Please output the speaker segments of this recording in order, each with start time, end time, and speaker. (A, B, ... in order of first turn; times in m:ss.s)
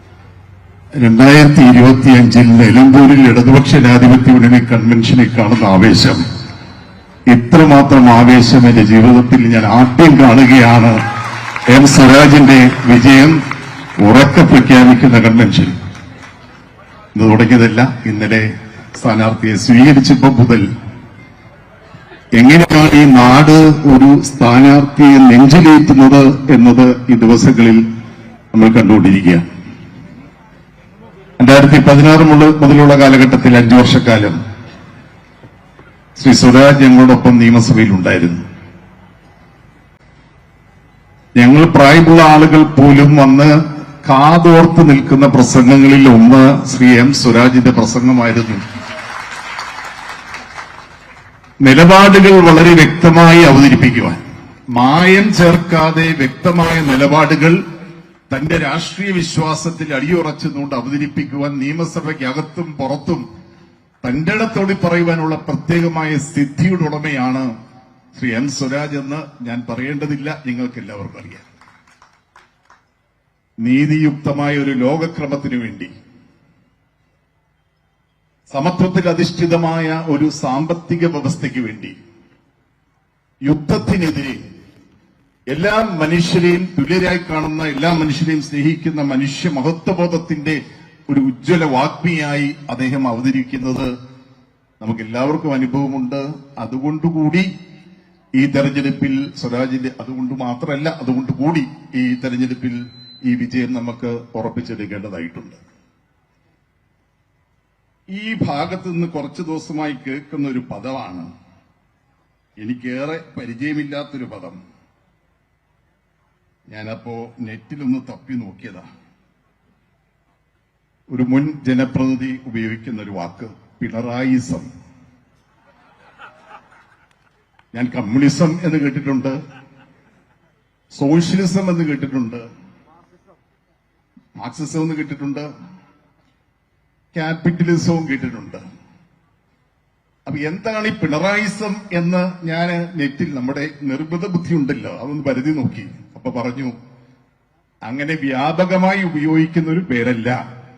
0:01.0-0:06.2 A
0:07.3-0:11.0 A
0:11.7-0:13.4 A
0:14.0-0:15.7 A
0:17.1-0:20.7 A
0:22.3-0:27.8 A
0:28.5-0:29.4 A
0:31.4-0:34.4 A
0:36.2-0:38.4 A
0:41.4-0:43.5 A
0:44.0-0:48.6 A
0:51.6-0:54.2 A
0:54.7-0:57.6 A
0:58.3-1:03.2 A
1:04.0-1:07.5 A
1:08.1-1:11.4 A
1:13.6-1:15.9 A
1:18.5-1:22.0 A
1:23.4-1:24.4 A
1:25.5-1:33.9 A
1:34.8-1:37.5 A
1:38.4-1:45.6 A
1:48.1-1:51.3 A
1:52.6-1:54.6 A
1:56.7-1:58.8 A
2:01.1-2:04.7 A
2:07.7-2:09.4 A
2:10.9-2:12.4 A
2:14.4-2:15.5 A
2:17.1-2:18.6 A
2:20.2-2:26.7 A
2:27.8-2:30.4 A